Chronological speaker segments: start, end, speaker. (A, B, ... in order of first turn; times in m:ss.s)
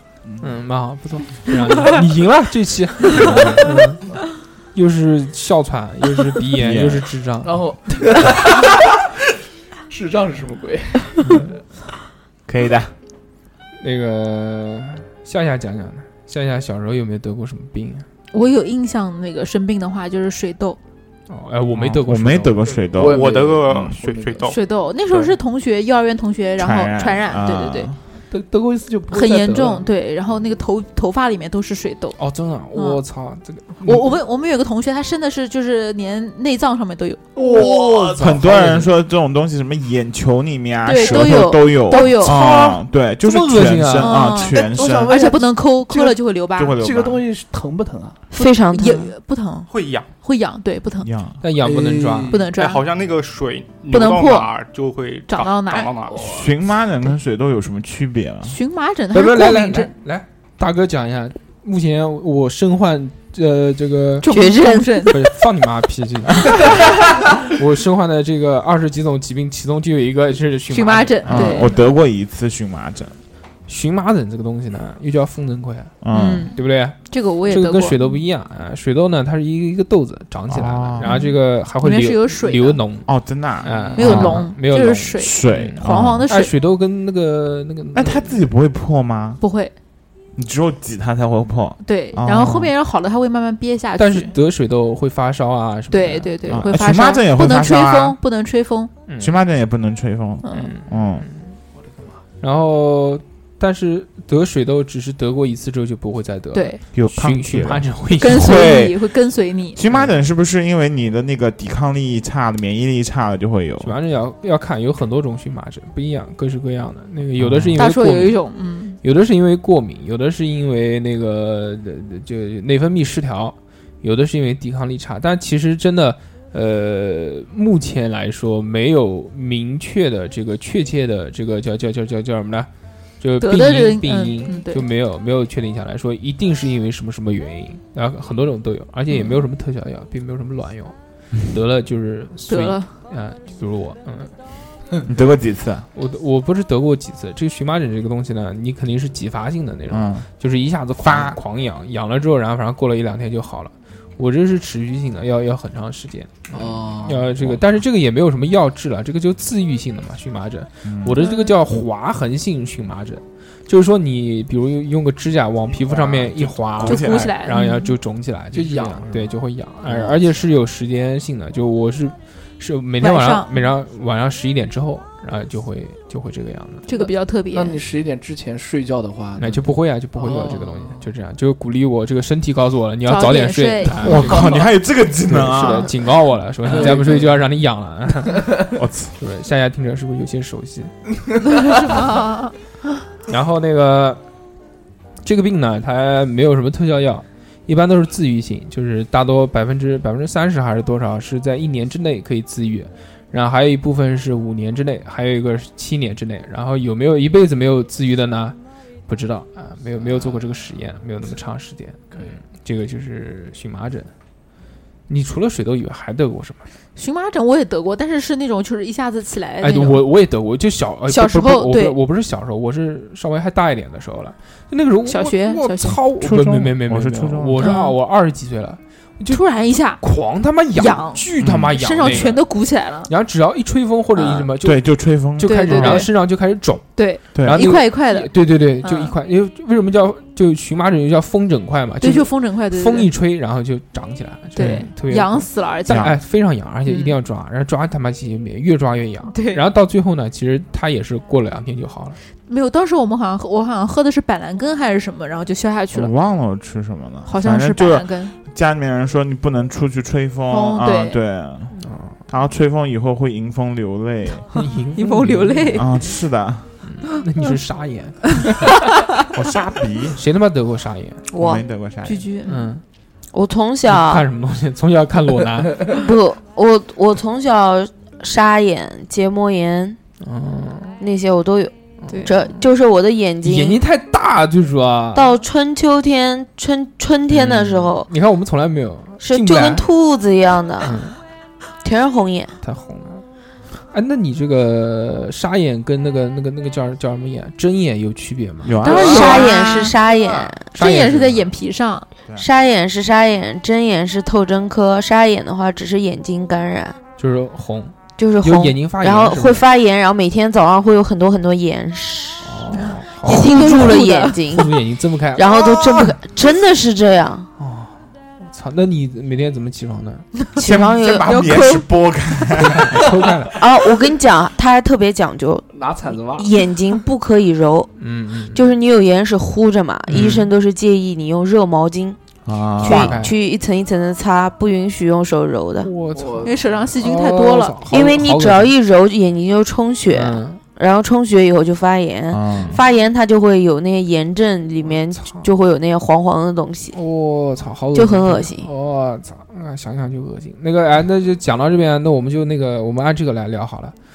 0:00.4-0:04.0 A
0:03.1-0:03.6 B
0:04.7-0:07.6 A
0:06.6-0:07.1 B
0:07.4-0:09.0 C
0:09.9-0:11.3 C
0:11.2-0:11.6 A
0:12.5-0:12.9 B
0:13.8-0:18.0 A
0:18.3-0:20.8 D
0:21.3-0:22.6 A
0:21.7-0:23.7 B
0:22.9-0:24.6 E
0:22.9-0:24.5 C
0:24.5-0:27.9 D
0:26.6-0:28.0 B
0:28.3-0:29.8 C
0:29.1-0:32.2 D
0:32.2-0:34.1 A
0:32.7-0:33.0 D
0:33.8-0:37.3 D
0:37.4-0:38.8 C
0:37.5-0:38.9 A
0:38.2-0:45.2 B
0:40.8-0:42.8 D
0:43.2-0:44.3 A
0:44.0-0:46.8 D
0:44.5-0:46.2 C
0:46.5-0:47.2 B
0:46.8-0:48.2 C
0:48.3-0:49.1 F
0:48.3-0:49.7 D
0:49.7-0:50.1 E
0:50.2-0:51.1 D
0:51.0-0:51.4 B
0:51.4-0:52.4 A
0:51.6-0:52.5 C
0:52.3-0:52.8 D
0:52.5-0:56.4 E
0:53.9-0:54.5 D
0:55.3-0:55.9 D
0:56.1-0:56.5 C
0:56.2-0:58.6 B
0:58.4-0:59.9 D
0:59.1-1:04.3 A
1:04.2-1:05.2 D
1:04.3-1:05.1 F
1:05.1-1:06.7 A
1:07.4-1:11.7 A
1:10.7-1:11.8 D
1:11.2-1:13.2 B
1:13.7-1:15.9 A
1:16.0-1:16.5 B
1:16.1-1:18.0 D
1:16.5-1:23.1 A
1:20.5-1:21.3 B
1:21.0-1:22.8 D
1:23.0-1:24.5 B
1:23.6-1:28.4 A
1:23.9-1:26.5 D
1:25.2-1:26.3 B
1:27.9-1:29.4 B
1:29.4-1:29.7 D
1:30.4-1:32.7 B
1:31.8-1:34.3 D
1:34.0-1:36.6 A
1:35.9-1:38.9 D
1:36.5-1:38.2 B
1:39.1-1:39.3 A
1:39.2-1:41.3 B
1:40.4-1:40.8 D
1:40.5-1:41.5 A
1:42.4-1:48.8 A
1:46.5-1:46.8 D
1:46.9-1:49.0 B
1:48.2-1:49.8 D
1:49.7-1:54.0 B
1:53.8-1:58.4 A
1:57.4-1:57.8 B
1:57.7-1:59.0 D
1:59.0-2:12.7 A
2:13.2-2:20.9 A
2:13.4-2:14.9 D
2:21.4-2:24.3 A
2:22.5-2:22.9 D
2:25.0-2:25.8 B
2:25.9-2:56.9 A
2:29.9-2:30.3 B
2:31.0-2:31.4 B
2:36.5-2:37.3 C
2:40.8-2:41.2 B
2:41.2-2:41.5 D
2:45.8-2:47.3 B
2:46.8-2:48.0 D
2:48.5-2:49.3 C
2:53.0-2:53.6 D
2:56.8-2:57.8 D
2:56.9-3:01.1 C
2:59.4-3:04.5 A
3:03.0-3:04.7 D
3:04.0-3:05.9 B
3:05.2-3:08.6 A
3:06.7-3:07.3 C
3:08.7-3:09.1 B
3:09.2-3:11.0 A
3:11.4-3:12.5 D
3:13.3-3:14.2 A
3:15.2-3:28.6 A
3:29.1-3:34.1 A
3:35.1-3:36.6 A
3:37.0-3:40.1 D
3:39.6-3:52.4 A
3:41.1-3:42.0 D
3:45.0-3:46.0 D
3:46.2-3:47.6 B
3:47.6-3:48.0 D
3:49.3-3:50.0 D
3:50.7-3:53.1 D
3:51.4-3:52.3 B
3:53.1-3:54.8 A
3:54.5-3:56.0 B
3:55.3-4:12.2 A
3:55.4-3:56.1 D
3:57.0-3:59.2 D
3:57.3-3:57.7 B
4:02.0-4:03.1 D
4:04.5-4:06.1 D
4:06.8-4:07.2 D
4:09.3-4:09.6 D
4:12.5-4:16.1 D
4:15.9-4:24.5 B
4:17.2-4:18.3 D
4:20.5-4:21.2 D
4:21.8-4:22.2 A
4:24.5-4:25.8 A
4:24.9-4:25.9 D
4:25.7-4:26.7 B
4:26.8-4:28.5 A
4:29.3-4:30.2 B
4:30.2-4:31.2 A
4:31.3-4:31.6 F
4:31.4-4:32.2 B
4:32.0-4:32.7 D
4:32.4-4:32.8 A
4:33.3-4:34.2 F
4:33.8-4:35.9 A
4:35.9-4:40.0 F
4:40.2-4:41.0 A
4:41.0-4:43.8 F
4:42.1-4:42.4 D
4:43.4-4:45.4 A
4:45.1-4:48.1 F
4:47.3-4:49.9 A
4:49.2-4:51.0 F
4:50.8-4:51.2 A
4:51.8-4:52.5 F
4:52.6-4:53.2 A
4:53.9-4:58.8 A
4:58.6-4:59.6 B
4:58.8-5:02.1 D
4:58.8-5:00.7 F
5:00.7-5:01.5 A
5:02.4-5:07.0 F
5:07.2-5:09.6 A
5:08.2-5:12.6 F
5:12.4-5:15.4 A
5:12.8-5:14.4 D
5:13.2-5:14.7 F
5:15.3-5:17.5 F
5:15.5-5:15.8 C
5:17.6-5:20.3 A
5:20.6-5:21.7 F
5:20.6-5:23.2 B
5:21.2-5:21.9 D
5:22.7-5:23.6 A
5:23.5-5:25.6 F
5:25.7-5:26.5 C
5:26.2-5:27.9 F
5:28.0-5:28.6 A
5:28.5-5:32.2 F
5:30.1-5:30.4 A
5:30.1-5:30.4 B
5:32.5-5:33.2 B
5:32.8-5:35.9 F
5:32.8-5:33.3 A
5:35.8-5:38.7 A
5:36.1-5:36.8 C
5:36.4-5:37.8 D
5:37.9-5:47.0 F
5:40.1-5:40.6 A
5:42.3-5:42.8 B
5:44.8-5:45.5 A
5:46.9-5:53.9 A
5:47.9-5:48.7 F